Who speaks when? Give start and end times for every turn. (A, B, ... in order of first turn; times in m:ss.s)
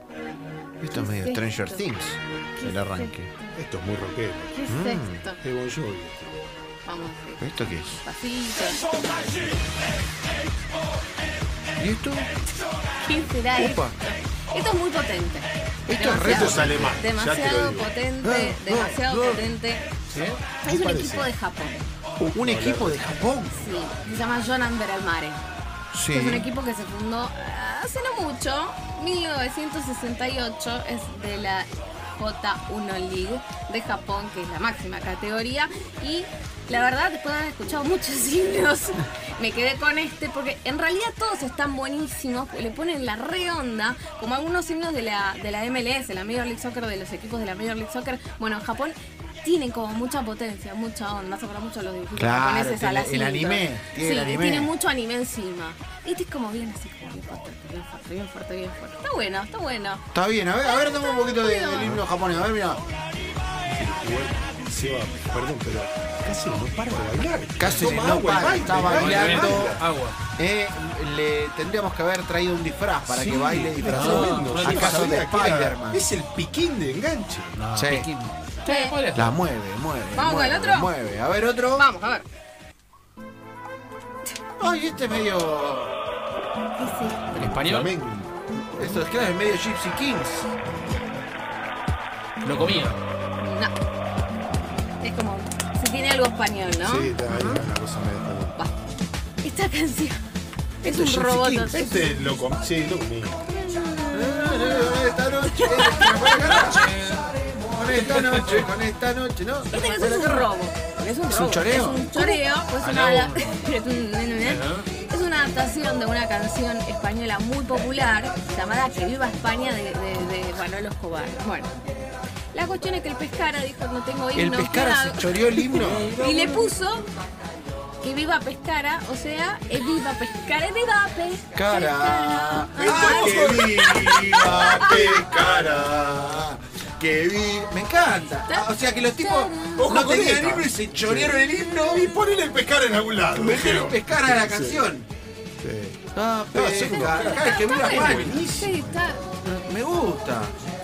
0:00.8-0:03.3 A
0:00.9-0:01.9 B
0:02.5-0:03.6 B
0:03.6-0:04.6 C
0:04.5-0:05.4 B
0:04.7-0:05.2 A
0:05.4-0:06.4 C
0:06.8-0:08.8 B
0:07.4-0:08.0 A
0:11.8-0:12.3 A
0:13.0-0:19.9 B
0:13.5-0:14.0 A
0:15.9-0:17.0 A
0:16.2-0:17.9 C
0:18.2-0:19.4 A
0:20.1-0:20.4 D
0:20.6-0:21.9 B
0:20.6-0:21.3 C
0:22.2-0:23.6 A
0:22.3-0:23.0 C
0:23.5-0:25.4 B
0:25.9-0:26.5 A
0:26.1-1:00.0 B
0:52.2-0:54.7 A
1:00.1-1:02.8 A
1:00.6-1:02.0 B
1:03.7-1:09.8 C
1:07.6-1:09.8 A
1:07.6-1:10.2 D
1:10.4-1:16.0 A
1:13.0-1:17.6 C
1:13.9-1:15.1 D
1:17.6-1:19.3 D
1:17.7-1:18.1 A
1:18.6-1:19.0 B
1:19.1-1:21.9 A
1:20.1-1:20.9 B
1:21.7-1:22.2 B
1:24.6-1:25.9 A
1:26.8-1:27.4 B
1:27.3-1:27.9 D
1:27.4-1:28.3 C
1:28.7-1:30.5 A
1:32.4-1:33.0 D
1:33.4-1:33.7 B
1:35.0-1:37.2 B
1:36.8-1:38.5 C
1:37.3-1:37.6 A
1:39.4-1:40.2 B
1:40.8-1:42.0 B
1:40.8-1:41.8 A
1:41.7-1:43.4 C
1:43.5-1:46.8 B
1:44.1-1:46.9 A
1:46.4-1:47.3 D
1:47.7-1:50.5 A
1:47.9-1:48.7 D
1:49.7-2:01.7 B
1:51.3-1:52.4 A
1:52.8-1:53.5 D
1:54.4-1:54.9 D
2:02.5-2:07.0 B
2:04.3-2:06.2 A
2:05.8-2:06.6 D
2:08.0-2:15.2 B
2:11.5-2:22.1 A
2:12.8-2:15.9 C
2:18.5-2:19.9 B
2:19.8-2:24.8 C
2:23.3-2:25.1 A
2:25.6-2:26.0 C
2:26.1-2:28.5 A
2:26.5-2:29.0 C
2:27.0-2:29.3 B
2:29.4-2:30.5 A